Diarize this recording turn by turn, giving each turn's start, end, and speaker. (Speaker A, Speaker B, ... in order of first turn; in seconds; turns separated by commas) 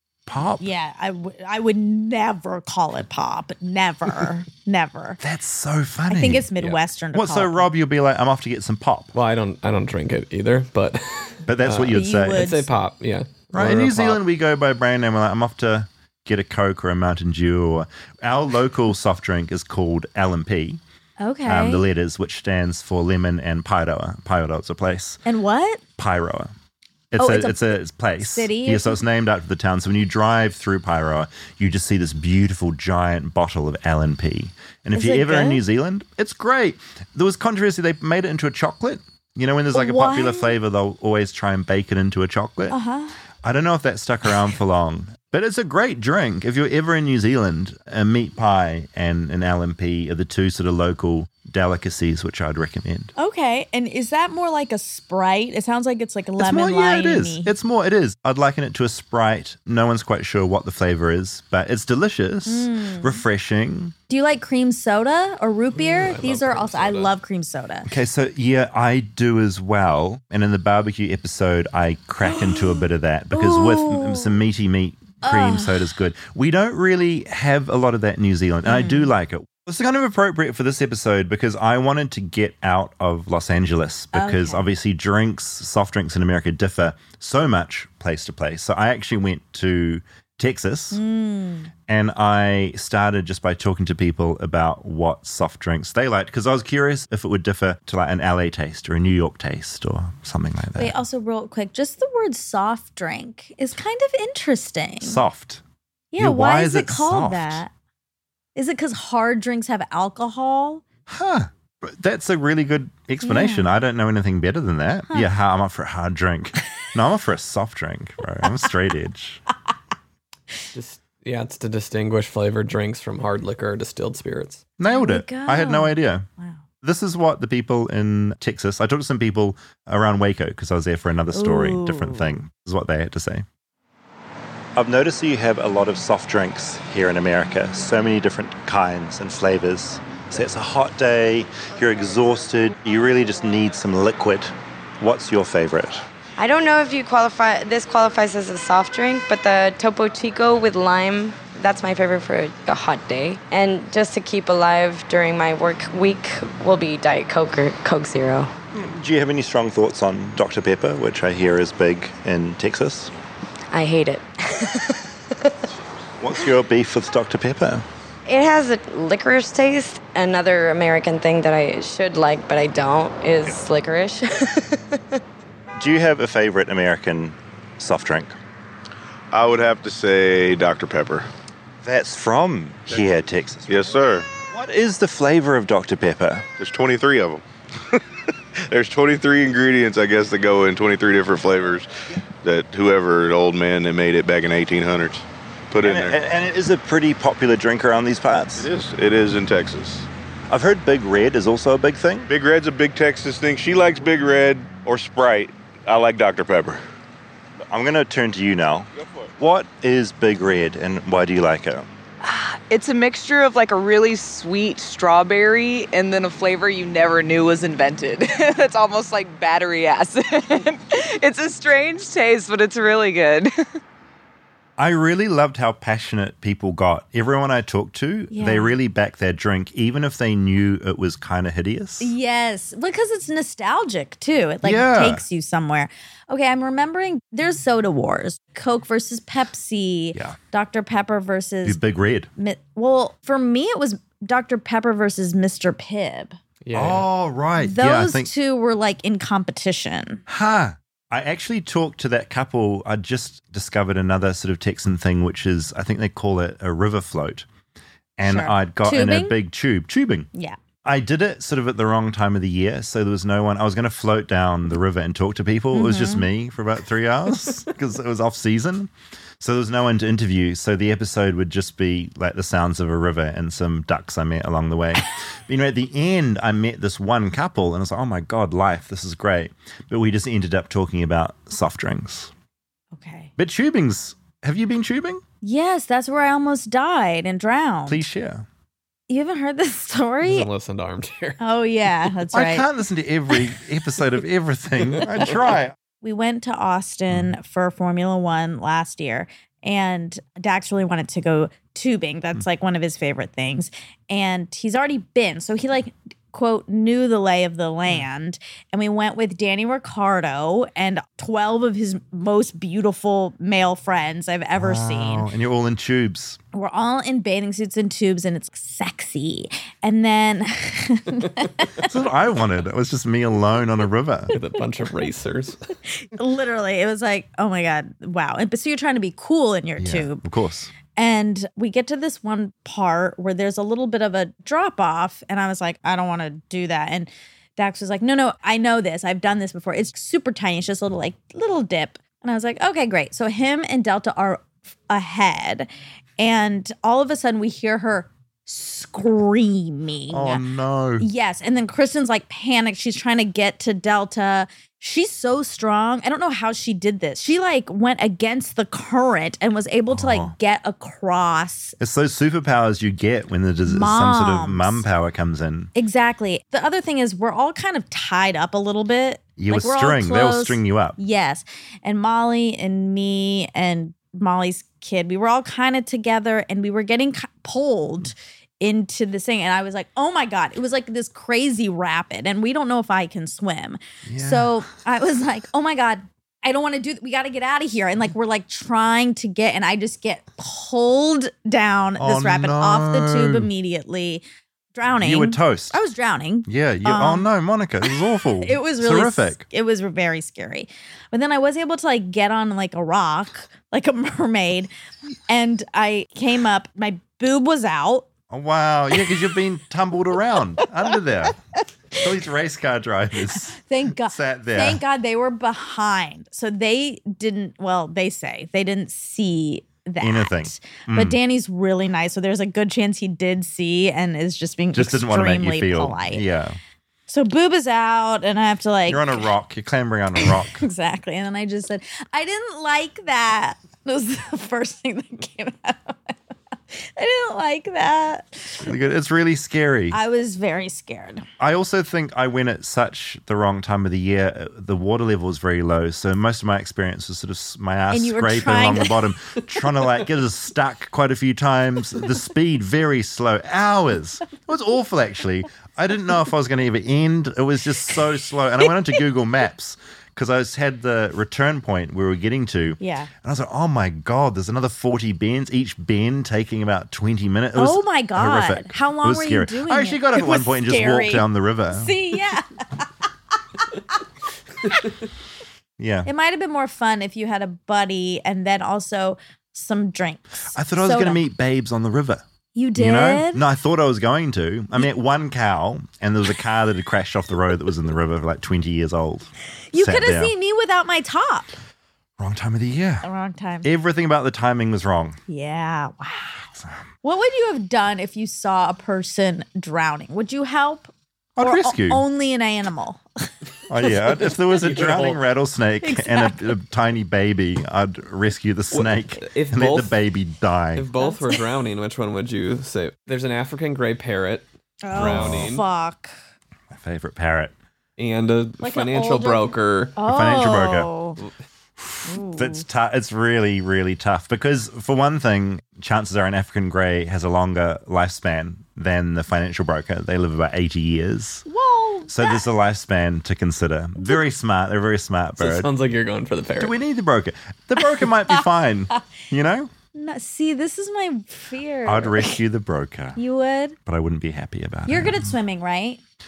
Speaker A: 0.3-0.6, Speaker B: 0.6-5.2, Speaker A: 5.2-6.5, Speaker B: 6.1-7.7, Speaker A: 7.1-9.1, Speaker C: 9.1-14.2, Speaker A: 11.5-12.5, Speaker B: 11.9-12.7, Speaker A: 13.5-20.8, Speaker B: 21.2-21.8, Speaker A: 21.4-25.2, Speaker B: 25.2-25.8, Speaker A: 26.0-26.5, Speaker A: 27.1-42.8, Speaker B: 27.2-29.0, Speaker B: 34.9-35.6, Speaker B: 39.7-40.6, Speaker B: 42.7-43.2, Speaker A: 43.4-53.1, Speaker B: 53.2-57.5, Speaker A: 56.4-64.0, Speaker B: 62.5-63.2, Speaker B: 64.1-67.9, Speaker C: 65.8-67.1, Speaker A: 67.9-91.0, Speaker B: 72.2-72.8, Speaker B: 73.3-74.4, Speaker B: 75.2-75.8, Speaker B: 78.7-79.1, Speaker B: 84.1-84.7, Speaker B: 90.9-91.7, Speaker A: 91.9-101.0, Speaker B: 100.8-105.2, Speaker A: 105.0-105.6, Speaker B: 106.1-107.7, Speaker A: 106.2-107.6, Speaker B: 108.5-110.8, Speaker A: 111.1-119.4, Speaker B: 113.2-113.7, Speaker C: 120.7-124.6, Speaker A: 124.8-126.3, Speaker B: 124.9-126.6, Speaker A: 126.8-133.4, Speaker B: 131.3-132.3, Speaker A: 134.8-146.0, Speaker D: 146.4-158.5, Speaker A: 158.7-163.1, Speaker D: 163.7-165.0, Speaker A: 166.2-167.8, Speaker D: 168.3-175.2, Speaker A: 175.8-178.3, Speaker E: 179.3-181.3, Speaker A: 181.8-183.9, Speaker E: 183.7-184.3, Speaker A: 184.5-186.5, Speaker E: 186.6-187.4, Speaker E: 188.7-191.9, Speaker E: 192.4-196.2, Speaker A: 195.8-198.7, Speaker E: 198.6-200.1, Speaker A: 200.5-202.3, Speaker E: 202.3-206.8, Speaker A: 207.7-211.9, Speaker F: 212.2-223.6, Speaker A: 224.8-232.1, Speaker B: 228.3-228.8, Speaker B: 232.0-241.8, Speaker A: 234.6-235.2, Speaker A: 241.6-242.3, Speaker B: 242.4-246.4, Speaker C: 246.6-247.1, Speaker A: 246.7-248.3, Speaker B: 247.6-250.2, Speaker A: 250.3-257.5, Speaker A: 258.2-260.3, Speaker B: 258.2-259.4, Speaker A: 260.8-282.3, Speaker B: 265.7-266.3, Speaker B: 282.9-283.3, Speaker A: 283.4-285.2, Speaker B: 285.4-288.0, Speaker A: 287.9-288.5, Speaker B: 289.1-290.5, Speaker C: 290.2-291.4, Speaker B: 291.4-292.7, Speaker A: 292.3-295.8, Speaker B: 296.0-315.3, Speaker A: 314.6-316.4, Speaker B: 316.5-321.9, Speaker A: 321.8-324.3, Speaker C: 324.3-325.6, Speaker B: 326.0-330.2, Speaker A: 329.8-330.7, Speaker B: 331.0-350.4, Speaker A: 350.1-351.1, Speaker B: 351.0-361.8, Speaker A: 359.9-360.4, Speaker A: 361.8-365.7, Speaker B: 363.7-364.8, Speaker B: 365.8-394.2, Speaker A: 369.4-371.0, Speaker A: 384.1-384.7, Speaker A: 392.0-393.5, Speaker B: 394.8-397.3, Speaker A: 395.0-395.8, Speaker A: 396.5-399.4, Speaker B: 397.9-404.7, Speaker B: 405.3-408.1, Speaker A: 408.3-411.4, Speaker B: 408.9-409.2, Speaker A: 411.9-414.8, Speaker B: 413.4-426.2, Speaker A: 420.0-421.2, Speaker A: 424.7-426.6, Speaker B: 427.1-429.2, Speaker A: 428.9-430.6, Speaker B: 430.2-436.1, Speaker B: 436.7-438.7, Speaker A: 438.6-440.0, Speaker B: 439.9-441.3, Speaker A: 441.4-471.9, Speaker B: 447.9-449.0, Speaker B: 462.8-463.1, Speaker B: 467.6-473.1, Speaker A: 475.8-476.1, Speaker B: 476.1-481.2, Speaker A: 480.5-482.2, Speaker B: 482.6-483.4, Speaker A: 482.8-490.3, Speaker B: 489.7-491.6, Speaker A: 492.2-493.1, Speaker B: 493.0-493.7, Speaker A: 493.6-495.2, Speaker B: 495.3-496.5, Speaker A: 496.6-496.8, Speaker B: 497.0-503.0, Speaker A: 501.4-502.0, Speaker A: 503.7-510.9, Speaker C: 504.0-505.2, Speaker B: 505.8-506.5, Speaker C: 508.7-510.0, Speaker C: 510.8-515.6, Speaker B: 511.0-511.4, Speaker B: 514.8-516.1, Speaker A: 514.9-515.5, Speaker A: 516.7-517.5, Speaker C: 518.0-519.9, Speaker B: 518.6-521.2, Speaker A: 520.0-520.9, Speaker A: 521.8-531.5, Speaker B: 522.1-522.6, Speaker B: 531.5-532.4, Speaker A: 532.1-535.7, Speaker C: 535.4-536.8, Speaker A: 536.6-539.7, Speaker B: 538.0-538.4, Speaker B: 540.0-542.4, Speaker A: 541.9-543.2, Speaker B: 543.2-543.8, Speaker A: 543.9-545.3, Speaker B: 544.9-546.0